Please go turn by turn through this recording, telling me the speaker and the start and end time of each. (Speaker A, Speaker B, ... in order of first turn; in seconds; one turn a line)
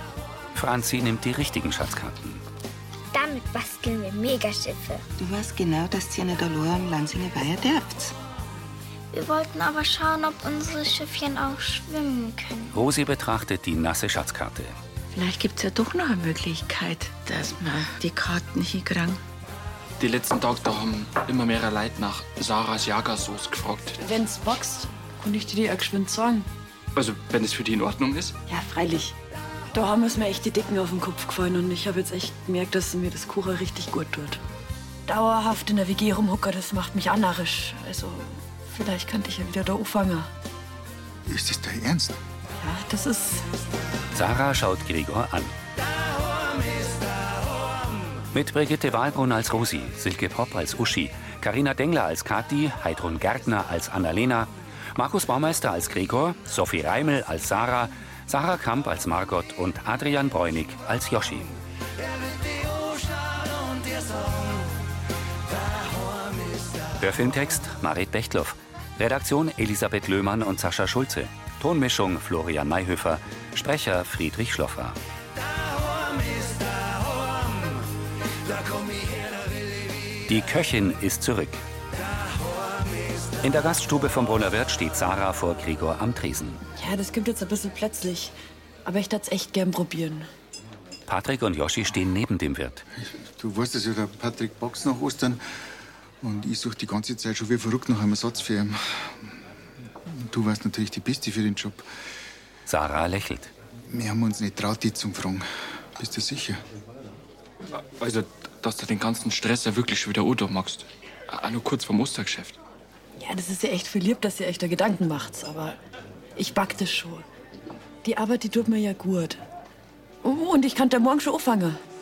Speaker A: 0.6-2.4
Speaker B: 3.1-5.0
Speaker C: 5.2-8.2
Speaker B: 9.1-12.8
Speaker A: 12.7-14.8
Speaker D: 15.1-19.2
Speaker E: 20.0-24.0
Speaker F: 24.0-26.5
Speaker E: 26.9-28.4
Speaker F: 28.5-29.1
Speaker F: 29.7-34.4
Speaker F: 35.1-40.3
Speaker G: 41.2-42.2
Speaker F: 42.6-43.5
Speaker A: 44.1-45.5
Speaker A: 48.3-61.5
Speaker A: 67.0-75.0
Speaker A: 80.3-81.6
Speaker A: 83.4-86.6
Speaker F: 86.8-88.3
Speaker F: 88.8-90.3
Speaker A: 91.1-92.8
Speaker G: 93.0-95.4
Speaker G: 96.2-99.4
Speaker G: 100.0-101.9
Speaker A: 102.7-103.5
Speaker G: 103.9-106.6
Speaker E: 107.7-112.6
Speaker F: 113.2-115.8
Speaker F: 116.4-117.3
Speaker F: 118.0-119.4
Speaker F: 120.2-121.8